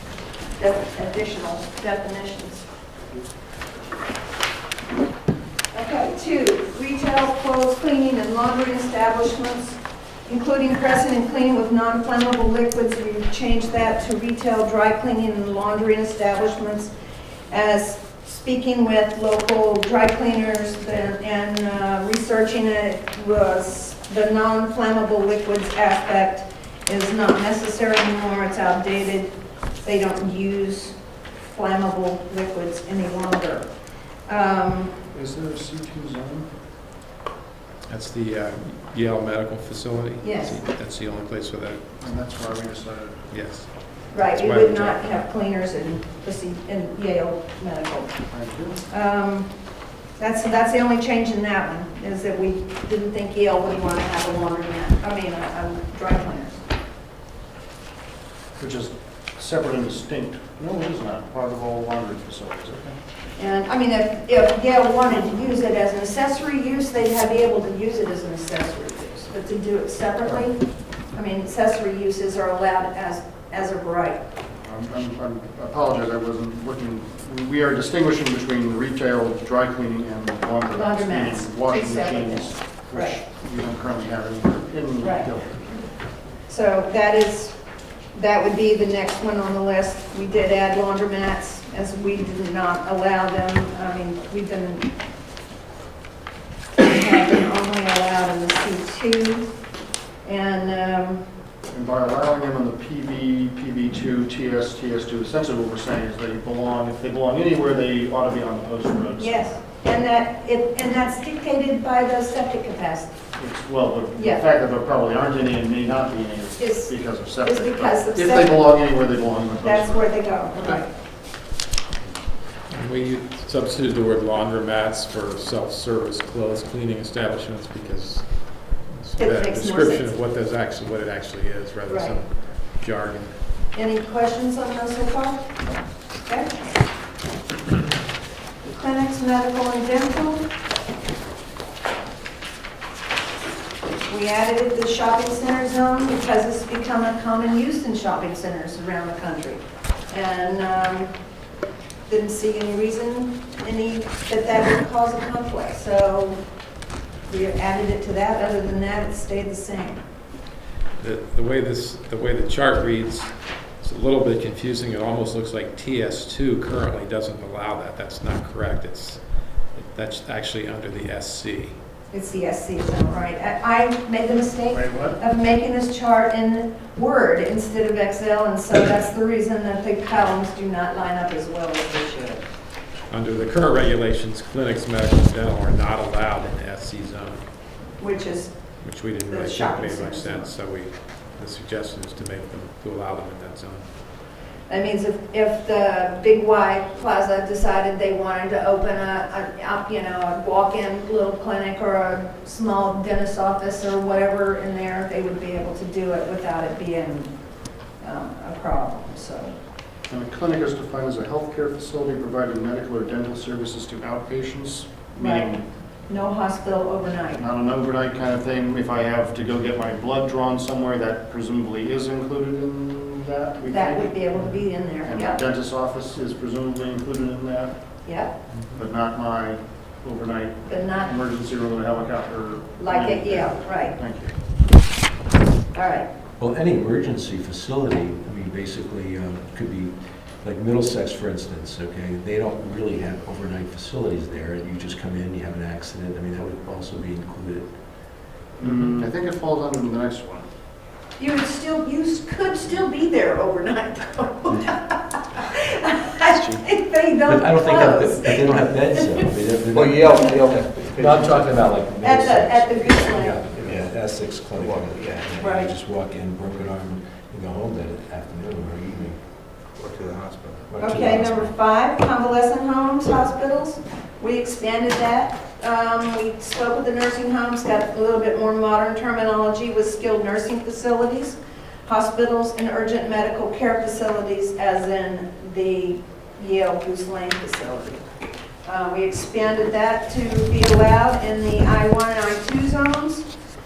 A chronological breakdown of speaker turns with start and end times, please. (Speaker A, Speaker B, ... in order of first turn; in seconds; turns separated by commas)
Speaker A: 0.6-2.6, Speaker A: 5.7-16.9, Speaker A: 17.5-29.3, Speaker A: 29.8-33.7, Speaker A: 34.3-35.0, Speaker B: 35.1-36.5, Speaker C: 37.9-41.9, Speaker A: 40.2-40.6, Speaker B: 42.0-43.2, Speaker C: 43.3-45.2, Speaker A: 44.1-48.1, Speaker B: 48.3-48.8, Speaker A: 48.9-49.5, Speaker A: 50.2-56.6, Speaker B: 58.6-63.0, Speaker A: 63.4-70.6, Speaker A: 71.1-74.2, Speaker B: 74.5-85.7, Speaker A: 80.7-83.2, Speaker A: 85.0-85.3, Speaker A: 86.5-87.6, Speaker A: 88.1-94.9, Speaker A: 96.7-99.5, Speaker A: 100.2-101.2, Speaker B: 101.7-109.4, Speaker A: 109.2-113.1, Speaker B: 113.3-120.8, Speaker A: 114.2-114.4, Speaker A: 116.6-118.7, Speaker A: 119.6-120.9, Speaker C: 122.7-133.3, Speaker A: 129.2-130.1, Speaker A: 131.9-132.2, Speaker A: 133.7-135.5, Speaker A: 136.2-136.7, Speaker A: 138.6-140.4, Speaker A: 144.1-151.1, Speaker A: 152.1-156.4, Speaker A: 157.3-160.0, Speaker C: 161.0-169.2, Speaker C: 169.7-171.8, Speaker A: 172.1-182.4, Speaker B: 174.7-175.2, Speaker C: 183.1-187.4, Speaker A: 188.0-188.6, Speaker C: 188.8-193.9, Speaker A: 189.3-190.5, Speaker A: 194.7-207.3, Speaker A: 208.0-209.5, Speaker B: 210.1-215.6, Speaker A: 215.2-215.5, Speaker A: 216.1-217.4, Speaker B: 217.4-227.8, Speaker A: 223.7-225.4, Speaker A: 228.0-228.3, Speaker B: 228.8-234.3, Speaker A: 230.7-231.1, Speaker A: 232.8-233.9, Speaker A: 235.7-236.1, Speaker D: 236.4-247.7, Speaker B: 248.6-250.4, Speaker A: 251.2-259.3, Speaker C: 256.2-256.6, Speaker D: 257.2-269.2, Speaker E: 259.7-261.6, Speaker A: 262.0-263.4, Speaker E: 264.6-265.1, Speaker A: 265.4-265.7, Speaker E: 269.8-270.7, Speaker D: 270.7-271.5, Speaker A: 270.8-288.0, Speaker A: 288.6-293.2